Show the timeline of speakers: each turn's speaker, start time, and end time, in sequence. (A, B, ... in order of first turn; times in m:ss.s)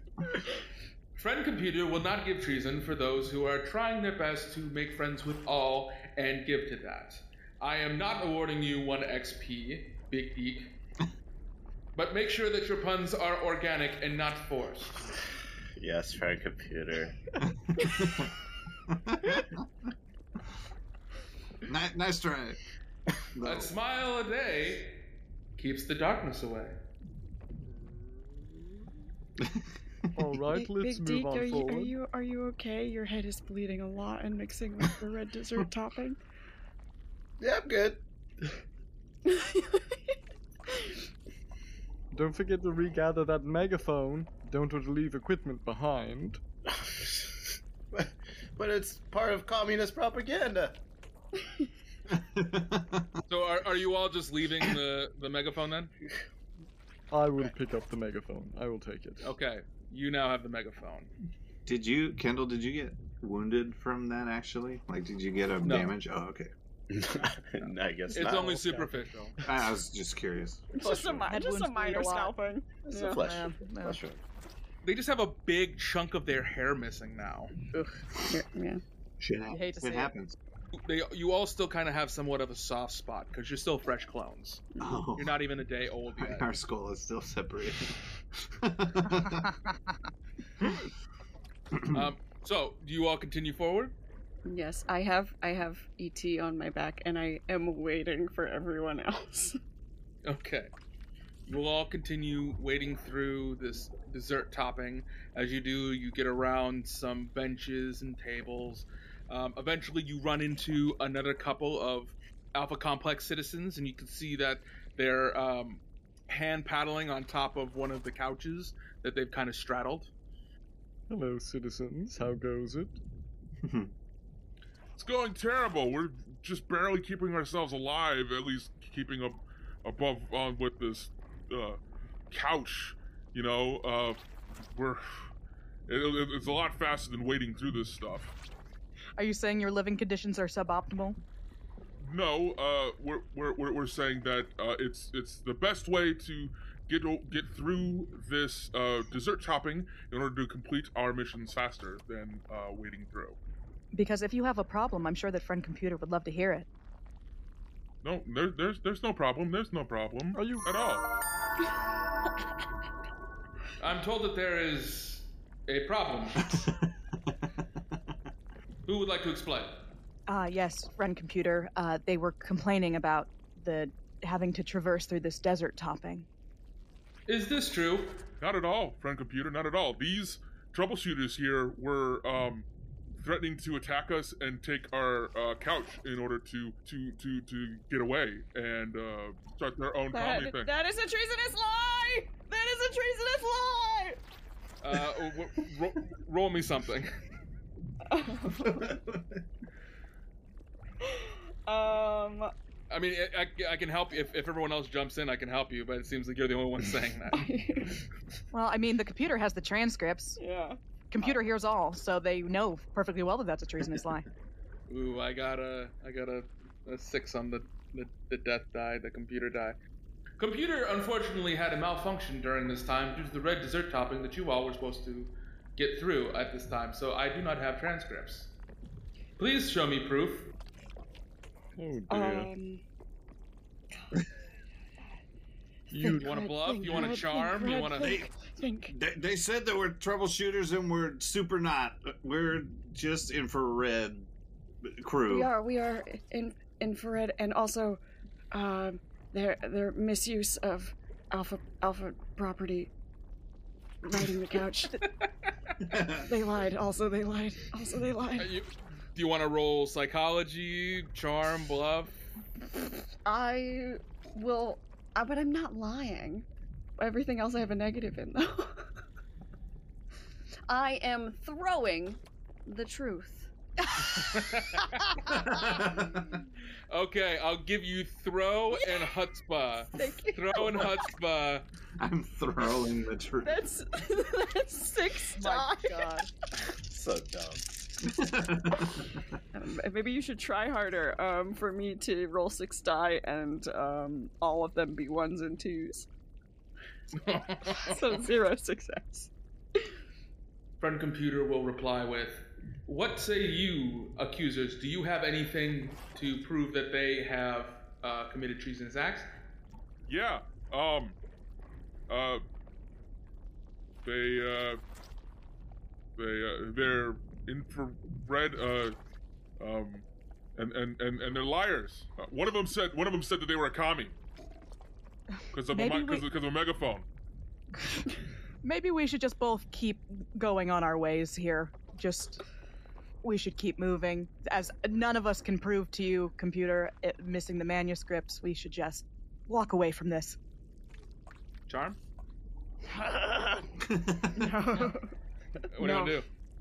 0:01.2-0:10.7 A
0:11.9-0:15.0 A
0:15.8-0:17.2 B
0:17.7-0:18.3 C
0:18.9-0:19.6 C
0:21.7-0:22.6 C
0:23.4-0:23.7 C
0:23.4-0:25.0 A
0:25.6-0:26.8 A
0:30.2-0:32.0 D
0:30.5-0:36.2 E
0:37.4-0:38.0 B
0:39.3-0:40.0 E
0:42.1-0:46.4 D
0:46.7-0:47.4 B
0:47.9-0:50.8 B
0:52.1-0:53.2 C
0:53.3-0:55.9 A
0:57.1-0:59.3 D
0:59.2-1:01.1 A
1:01.7-1:06.5 C
1:05.6-1:05.9 A
1:06.9-1:08.6 B
1:08.1-1:09.4 A
1:09.4-1:10.7 C
1:10.7-1:13.2 E
1:10.8-1:11.3 B
1:11.3-1:12.4 F
1:12.9-1:14.2 B
1:13.1-1:14.0 F
1:14.8-1:17.5 A
1:18.2-1:18.8 E
1:19.2-1:20.4 C
1:19.5-1:20.1 F
1:20.7-1:24.7 A
1:24.8-1:25.4 C
1:25.2-1:26.5 A
1:26.2-1:29.5 C
1:31.8-1:32.1 C
1:31.9-1:33.9 A
1:34.4-1:39.6 E
1:40.2-1:40.7 A
1:41.5-2:00.1 A
2:01.1-2:03.0 D
2:03.6-2:03.9 C
2:05.0-2:15.0 G
2:15.9-2:18.4 G
2:19.2-2:21.2 F
2:22.0-2:33.4 G
2:33.9-2:36.7 F
2:38.0-2:41.0 G
2:40.3-2:40.7 D
2:43.8-2:46.5 A
2:46.4-2:46.9 C
2:48.9-2:49.8 A
2:50.3-2:56.3 F
2:57.3-2:58.3 A
2:58.4-3:02.7 G
3:03.2-3:10.7 G
3:10.1-3:14.2 E
3:14.8-3:17.1 A
3:18.1-3:19.0 E
3:18.5-3:19.4 C
3:21.0-3:22.5 E
3:22.9-3:27.5 A
3:27.3-3:28.0 E
3:28.5-3:30.4 F
3:30.4-3:30.8 E
3:31.1-3:34.3 F
3:34.9-3:39.8 A
3:40.4-3:48.5 A
3:49.4-3:50.5 A
3:51.8-3:52.5 D
3:52.1-3:52.8 E
3:55.9-3:57.1 D
3:56.0-3:58.9 E
3:56.2-3:58.2 A
3:58.0-3:58.3 C
3:58.9-4:04.3 C
4:04.8-4:05.5 C
4:05.3-4:08.0 E
4:08.5-4:12.9 E
4:14.0-4:15.0 E
4:15.8-4:16.3 C
4:16.0-4:18.5 E
4:18.4-4:22.2 A
4:22.8-4:26.4 E
4:27.0-4:28.9 E
4:30.7-4:33.5 E
4:34.2-4:35.2 A
4:35.3-4:36.4 C
4:36.9-4:41.6 A
4:40.0-4:41.0 E
4:42.0-4:43.6 C
4:43.4-4:46.3 E
4:45.4-4:46.2 F
4:46.9-4:48.3 B
4:48.0-4:49.0 C
4:49.5-4:56.1 E
4:57.1-4:58.2 A
4:57.7-4:59.3 E
5:00.8-5:09.3 A
5:10.1-5:11.2 G
5:12.1-5:12.4 G
5:14.0-5:14.8 G
5:16.2-5:19.0 G
5:19.6-5:24.2 G
5:25.5-5:27.1 G
5:25.7-5:26.2 F
5:28.6-5:32.4 F
5:33.2-5:40.4 F
5:41.7-5:42.0 A
5:43.9-5:44.4 C
5:44.3-5:45.1 E
5:45.7-5:46.3 A
5:45.8-5:46.2 E